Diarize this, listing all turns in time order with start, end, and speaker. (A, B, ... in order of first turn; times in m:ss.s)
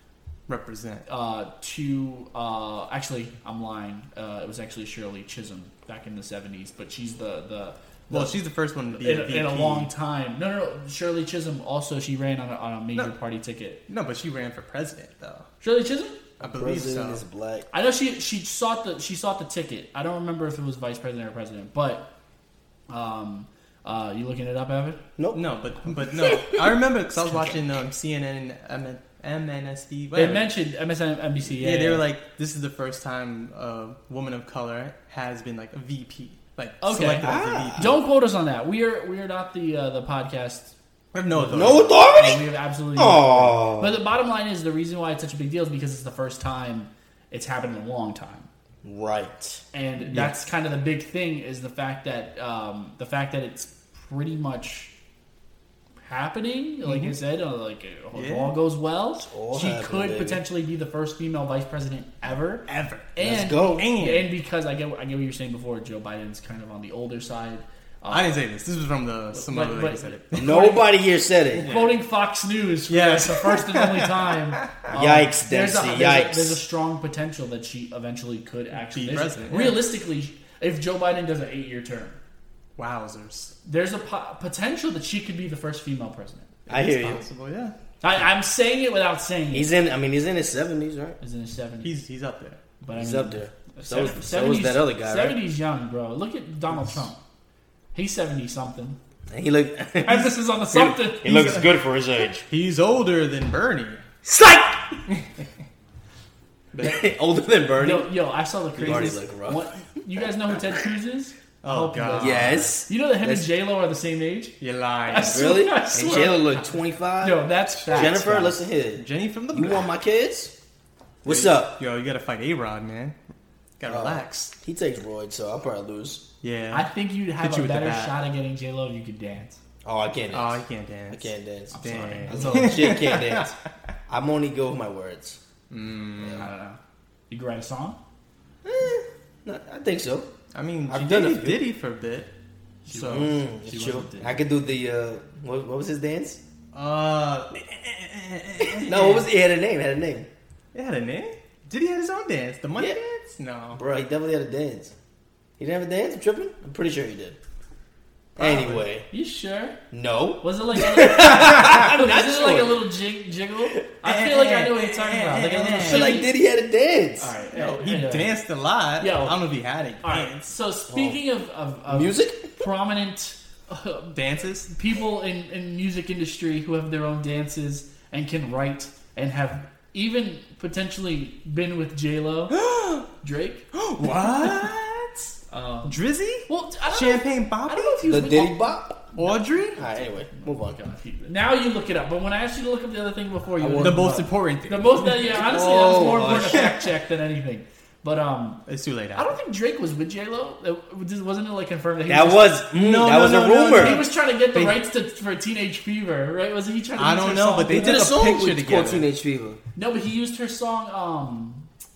0:00.5-0:01.1 A
0:01.1-0:08.4 B
0:08.1-0:09.9 A
0:08.9-0:13.8 B
0:13.9-0:15.5 A
0:15.6-0:16.2 B
0:16.4-0:17.2 A
0:16.4-0:17.7 C
0:17.7-0:22.1 B
0:22.9-0:25.0 B
0:25.2-0:25.4 C
0:25.3-0:30.5 A
0:27.3-0:27.6 B
0:30.1-0:32.0 B
0:31.5-0:38.0 A
0:36.8-0:40.8 B
0:37.2-0:37.9 C
0:41.1-0:42.0 A
0:41.3-0:48.5 B
0:41.5-0:44.0 C
0:48.8-0:49.6 C
0:49.7-0:54.9 B
0:50.0-0:50.4 A
0:56.0-1:08.4 B
0:56.8-0:57.2 A
0:58.1-0:58.6 A
0:59.2-1:00.4 C
1:02.7-1:04.3 A
1:03.2-1:03.9 C
1:08.1-1:10.7 A
1:09.3-1:10.8 B
1:10.4-1:11.7 C
1:11.5-1:12.0 A
1:11.6-1:22.2 B
1:12.9-1:15.0 A
1:14.9-1:16.6 C
1:18.7-1:19.8 A
1:22.8-1:23.5 A
1:23.6-1:26.5 B
1:26.7-1:27.8 A
1:26.7-1:27.3 C
1:28.0-1:29.7 B
1:29.5-1:31.2 C
1:31.2-1:32.0 B
1:31.8-1:32.6 A
1:32.8-1:37.2 B
1:33.0-1:35.4 C
1:37.9-1:39.0 B
1:39.3-1:42.5 C
1:40.0-1:41.6 B
1:41.3-1:41.7 A
1:42.4-1:44.0 A
1:44.2-1:45.0 C
1:46.8-1:48.2 C
1:47.8-1:54.6 B
1:48.8-1:49.8 C
1:51.6-1:52.7 A
1:52.2-1:53.5 C
1:54.6-1:55.6 A
1:55.1-1:56.7 B
1:55.2-2:00.5 C
1:57.2-1:58.6 B
1:57.9-1:58.2 A
1:59.0-1:59.9 A
2:01.2-2:01.8 C
2:01.2-2:03.2 A
2:03.8-2:04.5 A
2:03.9-2:06.3 C
2:06.4-2:06.9 A
2:06.7-2:09.6 B
2:07.4-2:08.2 A
2:09.8-2:13.6 C
2:10.3-2:13.9 A
2:11.7-2:12.9 B
2:14.1-2:15.4 C
2:15.7-2:16.5 A
2:16.4-2:16.8 B
2:17.3-2:18.0 B
2:18.6-2:20.3 C
2:20.5-2:22.3 A
2:20.9-2:21.6 C
2:22.9-2:24.4 B
2:22.9-2:23.3 A
2:23.1-2:26.4 C
2:26.7-2:29.3 A
2:28.7-2:30.3 C
2:30.7-2:33.8 A
2:33.7-2:35.0 C
2:35.6-2:37.4 C
2:38.4-2:38.9 A
2:38.4-2:39.1 C
2:39.1-2:39.8 B
2:39.9-2:42.9 C
2:40.4-2:46.3 B
2:44.0-2:46.3 A
2:45.8-2:47.3 C
2:47.2-2:48.3 B
2:47.5-2:50.5 A
2:49.0-2:49.4 B
2:50.0-2:54.2 B
2:50.9-2:51.2 C
2:51.9-2:52.6 C
2:54.1-2:54.7 A
2:54.7-3:02.6 B
3:02.5-3:03.1 A
3:03.2-3:03.7 B
3:03.7-3:08.1 A
3:05.5-3:18.6 B
3:08.0-3:09.1 C
3:09.2-3:09.8 A
3:09.8-3:10.8 C
3:13.6-3:14.2 C
3:13.8-3:15.5 A
3:15.3-3:16.7 C
3:16.1-3:16.8 A
3:18.7-3:19.3 A
3:19.1-3:22.5 B
3:22.1-3:24.0 C
3:22.7-3:24.9 A
3:23.7-3:28.1 B
3:27.0-3:29.1 A
3:27.7-3:29.6 C
3:29.8-3:31.7 B